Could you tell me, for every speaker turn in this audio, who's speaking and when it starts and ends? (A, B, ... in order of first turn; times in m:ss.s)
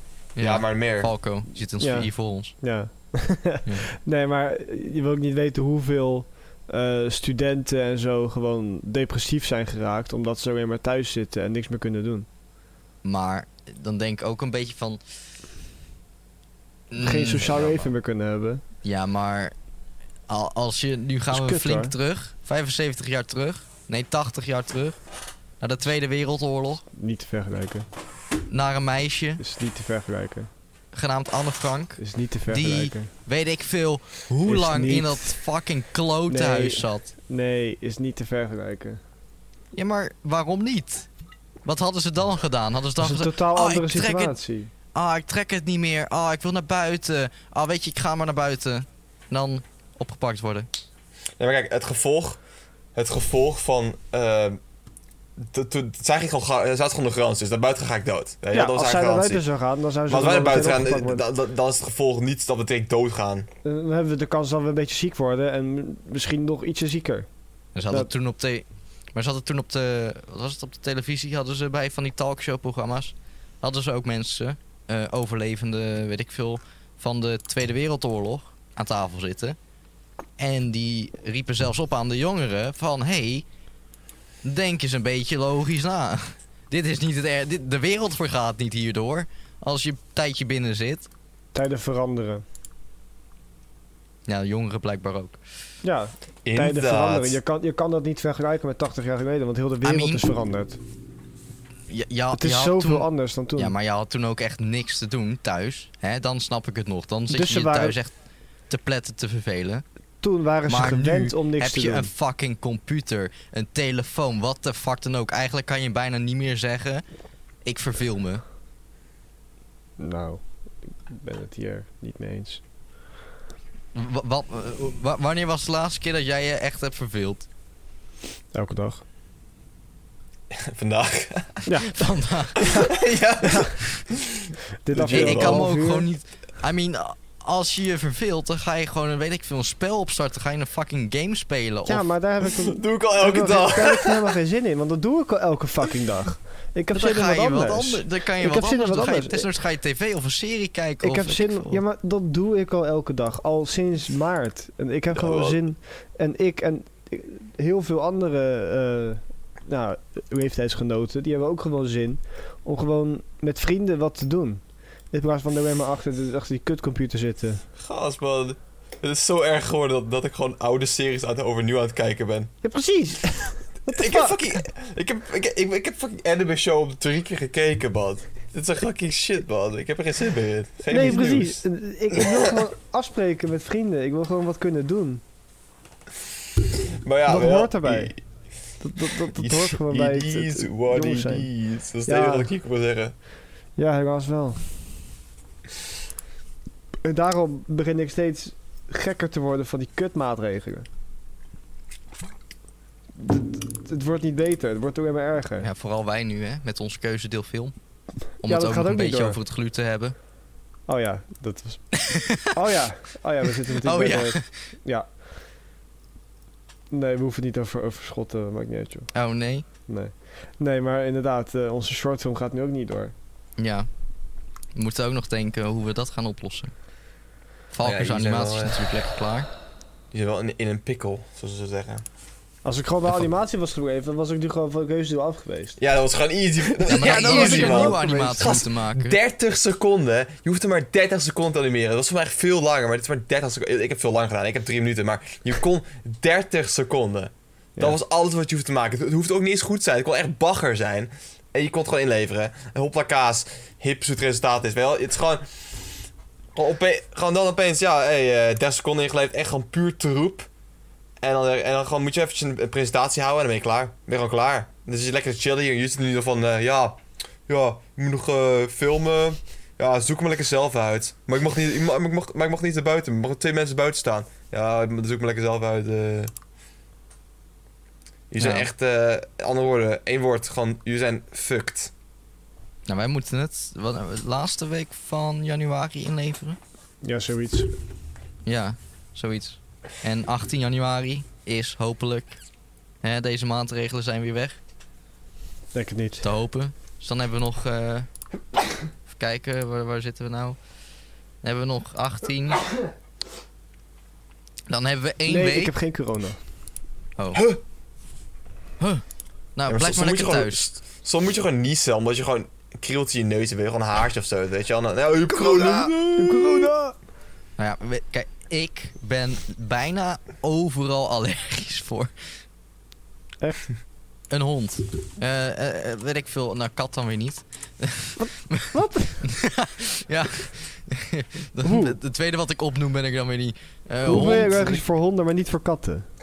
0:00.4-0:02.6 A
0:00.4-0:01.1 B
0:01.8-0:12.3 C
0:13.0-0:15.0 A
0:16.9-0:17.9 A
0:17.0-0:18.6 C
0:18.8-0:19.5 A
0:20.3-0:25.0 A
0:21.3-0:21.9 C
0:25.6-0:26.8 A
0:26.9-0:27.9 C
0:28.5-0:29.4 A
0:29.4-0:30.5 C
0:30.9-0:37.1 A
0:32.0-0:33.1 C
0:34.4-0:35.4 C
0:36.3-0:39.0 C
0:39.7-0:41.1 A
0:41.6-0:44.4 A
0:43.0-0:44.7 C
0:44.9-0:50.7 A
0:51.4-0:52.4 B
0:53.0-0:54.6 B
0:55.4-0:59.4 B
0:58.5-1:01.2 C
1:00.1-1:03.5 B
1:03.6-1:07.3 C
1:07.8-1:19.6 A
1:20.4-1:23.4 A
1:24.4-1:31.1 A
1:31.5-1:32.4 C
1:34.3-1:35.4 A
1:35.8-1:40.8 C
1:36.5-1:37.4 B
1:39.8-1:40.2 A
1:41.9-1:48.1 A
1:42.3-1:43.7 C
1:47.3-1:48.0 C
1:48.7-1:49.8 A
1:50.2-1:52.1 C
1:50.7-1:57.0 A
1:57.6-1:58.4 A
2:00.0-2:02.6 C
2:03.9-2:07.5 A
2:08.5-2:09.0 C
2:10.5-2:11.7 B
2:11.7-2:12.0 C
2:11.8-2:14.0 A
2:12.6-2:12.9 C
2:12.6-2:15.7 B
2:13.4-2:13.7 C
2:14.8-2:16.1 C
2:15.1-2:22.1 A
2:21.9-2:29.5 C
2:22.7-2:24.3 B
2:26.9-2:31.8 A
2:31.0-2:47.6 C
2:35.1-2:35.6 B
2:47.8-2:52.5 B
2:52.6-2:54.6 C
2:53.9-3:01.6 B
3:00.9-3:05.2 C
3:02.2-3:02.5 B
3:07.0-3:08.2 B
3:07.3-3:08.2 C
3:08.8-3:11.5 C
3:09.3-3:13.1 B
3:12.0-3:12.5 C
3:13.8-3:14.7 C
3:17.0-3:20.9 C
3:23.2-3:25.7 C
3:25.6-3:27.7 A
3:28.4-3:30.2 A
3:28.4-3:29.4 C
3:30.9-3:35.1 C
3:31.9-3:32.5 A
3:33.8-3:34.7 A
3:36.9-3:39.1 C
3:39.1-3:39.6 A
3:39.9-3:43.1 C
3:43.6-3:43.9 A
3:44.7-3:46.7 A
3:47.7-3:49.5 A
3:47.8-3:49.0 B
3:50.1-3:52.0 B
3:52.6-3:55.8 C
3:55.8-4:15.8 B
3:56.8-3:58.6 C
3:56.9-3:59.2 A
4:16.6-4:20.5 B
4:21.2-4:36.3 B
4:38.3-4:41.9 B
4:38.4-4:38.7 A
4:42.9-4:46.6 A
4:47.0-4:47.7 C
4:48.5-4:52.4 A
4:53.0-4:54.6 A
4:55.7-4:56.2 C
4:56.2-4:58.1 A
4:59.1-5:00.6 A
5:01.4-5:02.7 A
5:04.7-5:05.7 A
5:05.3-5:06.4 C
5:09.6-5:10.7 A
5:09.7-5:16.7 B
5:15.4-5:17.0 C
5:17.6-5:22.1 A
5:24.3-5:34.8 A
5:28.2-5:29.3 C
5:31.6-5:32.0 C
5:34.0-5:36.1 C